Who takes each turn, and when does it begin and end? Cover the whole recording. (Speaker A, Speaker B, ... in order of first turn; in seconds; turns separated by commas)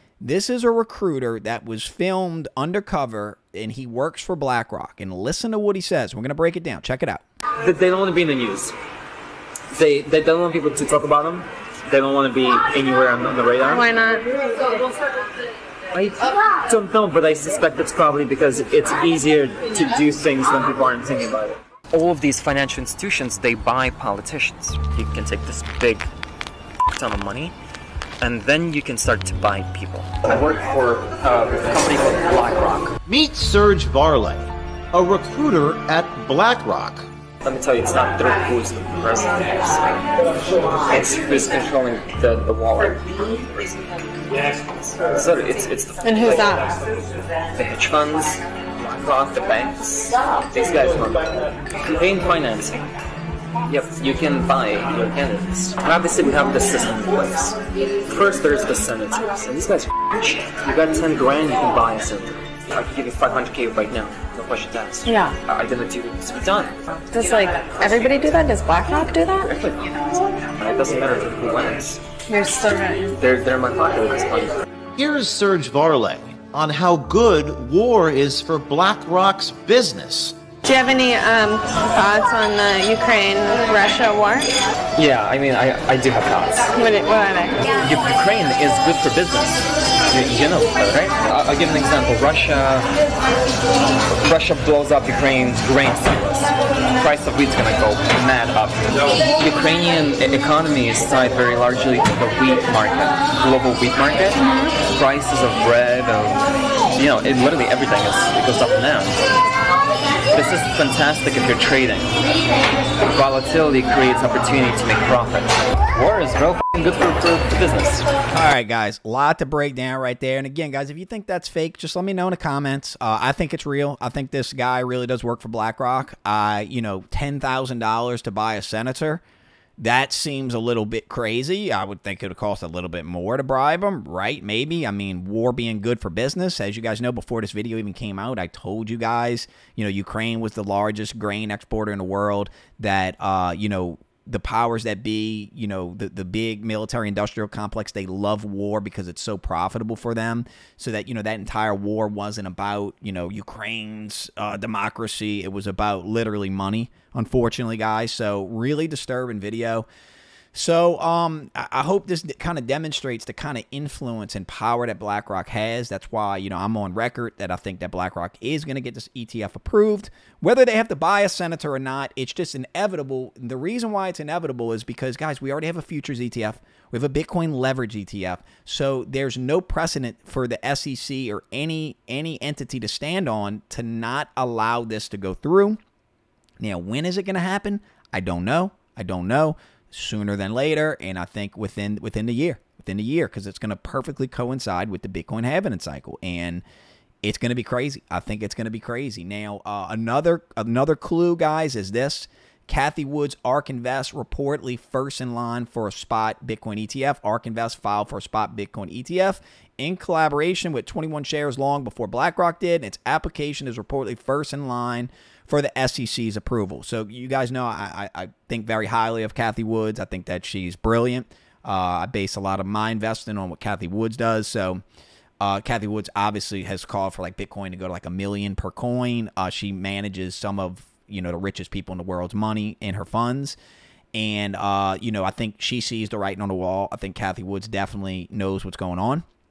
Speaker A: 0.2-7.2, Speaker B: 7.6-8.7, Speaker B: 9.7-13.9, Speaker C: 13.7-14.2, Speaker B: 15.9-26.1, Speaker B: 26.9-27.5, Speaker B: 28.2-33.0, Speaker D: 33.0-37.0, Speaker B: 37.4-40.2, Speaker B: 40.8-44.0, Speaker B: 44.9-46.8, Speaker C: 46.0-46.6, Speaker B: 47.5-52.8, Speaker B: 53.7-66.8, Speaker C: 65.0-65.3, Speaker C: 67.1-69.5, Speaker B: 69.4-72.0, Speaker C: 72.3-73.1, Speaker B: 73.1-74.6, Speaker D: 75.0-80.3, Speaker C: 80.6-84.5, Speaker B: 85.0-86.7, Speaker C: 86.7-87.6, Speaker B: 87.8-92.9, Speaker B: 94.1-106.4, Speaker B: 106.9-109.2, Speaker B: 110.3-112.2, Speaker B: 113.0-118.1, Speaker A: 118.3-129.2, Speaker A: 129.8-159.9, Speaker A: 160.5-185.8, Speaker A: 186.6-196.6, Speaker A: 197.2-224.8, Speaker A: 225.4-233.6, Speaker A: 234.1-239.2